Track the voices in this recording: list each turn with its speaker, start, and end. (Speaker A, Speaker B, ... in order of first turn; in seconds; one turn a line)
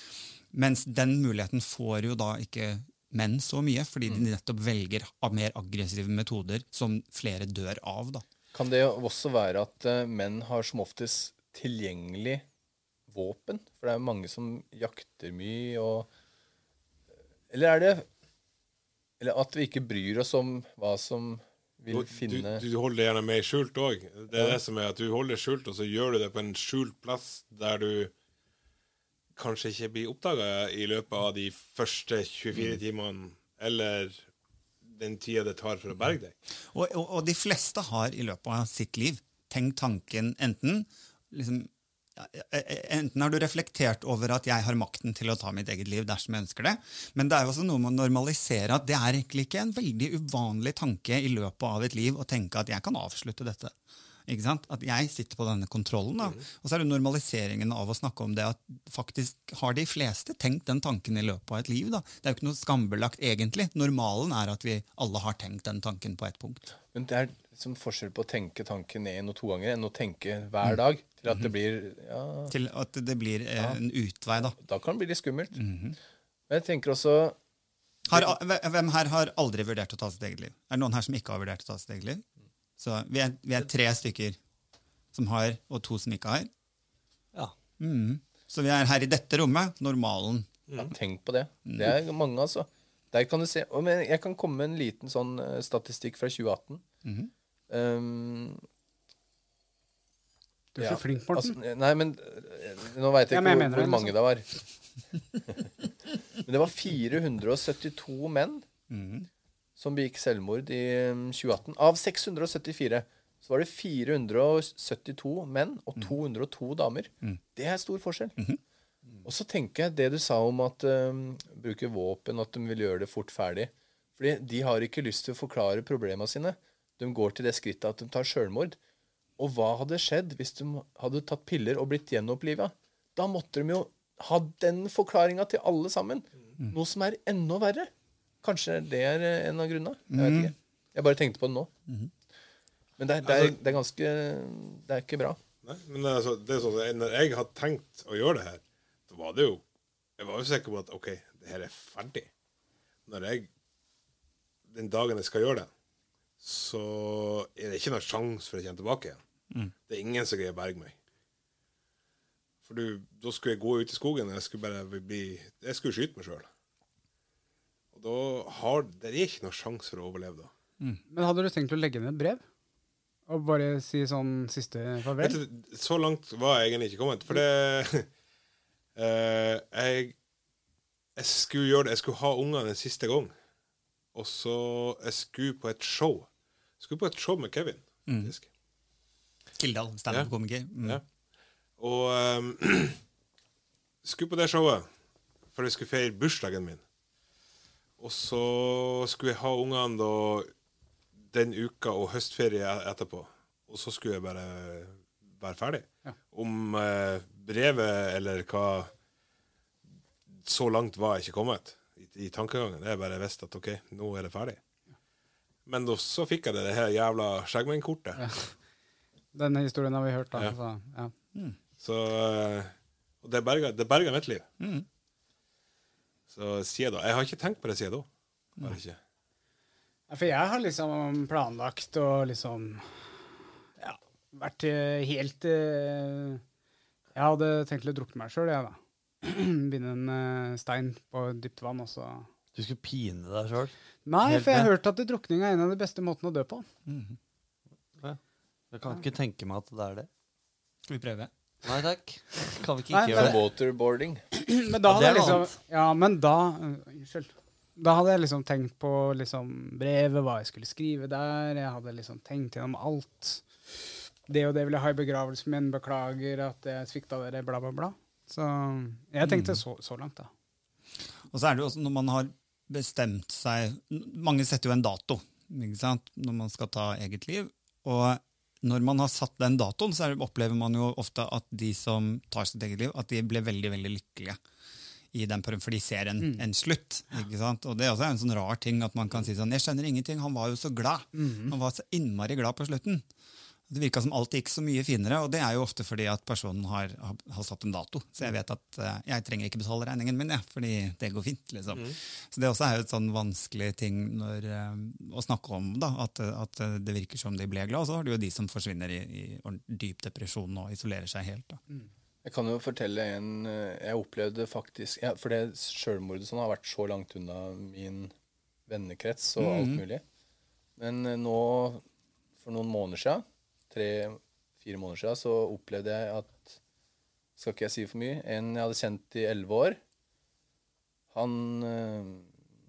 Speaker A: 0.5-8.2
Speaker B: 8.5-12.4
Speaker B: 13.1-16.1
Speaker B: 17.5-18.1
Speaker B: 19.2-22.6
Speaker C: 21.9-28.1
Speaker B: 24.3-24.6
Speaker C: 29.4-34.2
Speaker C: 34.9-36.3
Speaker A: 36.7-53.7
Speaker A: 54.3-66.6
Speaker B: 66.9-72.5
Speaker A: 72.5-74.6
Speaker B: 74.5-75.6
Speaker A: 75.6-76.0
Speaker B: 76.5-77.4
Speaker A: 78.1-82.2
Speaker A: 82.8-84.4
Speaker A: 85.1-86.5
Speaker A: 87.8-90.5
Speaker B: 90.8-96.8
Speaker A: 91.7-92.0
Speaker A: 97.0-97.3
Speaker B: 97.7-98.6
Speaker D: 100.8-101.6
Speaker B: 100.8-104.5
Speaker D: 103.3-104.1
Speaker B: 106.4-108.7
Speaker A: 108.9-109.3
Speaker B: 109.8-118.4
Speaker B: 119.2-128.8
Speaker B: 129.4-137.9
Speaker B: 138.4-141.7
Speaker A: 140.1-140.5
Speaker B: 143.0-145.4
Speaker C: 143.3-143.6
Speaker C: 145.6-149.6
Speaker C: 150.2-152.3
Speaker C: 153.1-153.5
Speaker C: 154.7-155.7
Speaker C: 156.4-159.2
Speaker C: 159.9-160.9
Speaker C: 162.7-166.5
Speaker C: 167.9-170.5
Speaker D: 171.1-172.4
Speaker D: 173.3-175.4
Speaker C: 175.2-178.1
Speaker C: 179.0-180.2
Speaker C: 181.2-183.3
Speaker C: 184.1-186.3
Speaker C: 186.8-188.5
Speaker A: 188.1-188.3
Speaker A: 189.6-191.0
Speaker C: 191.8-193.0
Speaker C: 194.0-194.9
Speaker C: 195.5-196.8
Speaker C: 198.0-200.5
Speaker C: 201.3-208.9
Speaker C: 210.3-214.6
Speaker C: 215.7-218.2
Speaker D: 218.2-218.5
Speaker D: 219.3-221.1
Speaker C: 221.8-224.5
Speaker A: 224.6-224.9
Speaker C: 226.3-228.1
Speaker C: 228.6-229.0
Speaker D: 230.1-232.8
Speaker D: 233.8-236.4
Speaker D: 237.2-242.3
Speaker E: 242.6-243.7
Speaker D: 244.1-246.7
Speaker E: 244.3-244.7
Speaker A: 246.9-247.2
Speaker E: 248.7-250.1
Speaker A: 250.9-251.3
Speaker E: 251.6-253.4
Speaker D: 252.9-253.3
Speaker B: 253.1-254.2
Speaker D: 254.3-263.4
Speaker E: 254.9-255.5
Speaker D: 264.3-270.3
Speaker A: 269.2-269.6
Speaker A: 271.3-284.4
Speaker A: 285.1-293.1
Speaker D: 291.1-291.5
Speaker A: 293.7-311.6
Speaker B: 312.2-318.1
Speaker B: 318.7-320.0
Speaker A: 319.4-319.8
Speaker B: 320.8-321.8
Speaker B: 322.4-326.6
Speaker B: 327.4-329.8
Speaker B: 331.1-332.3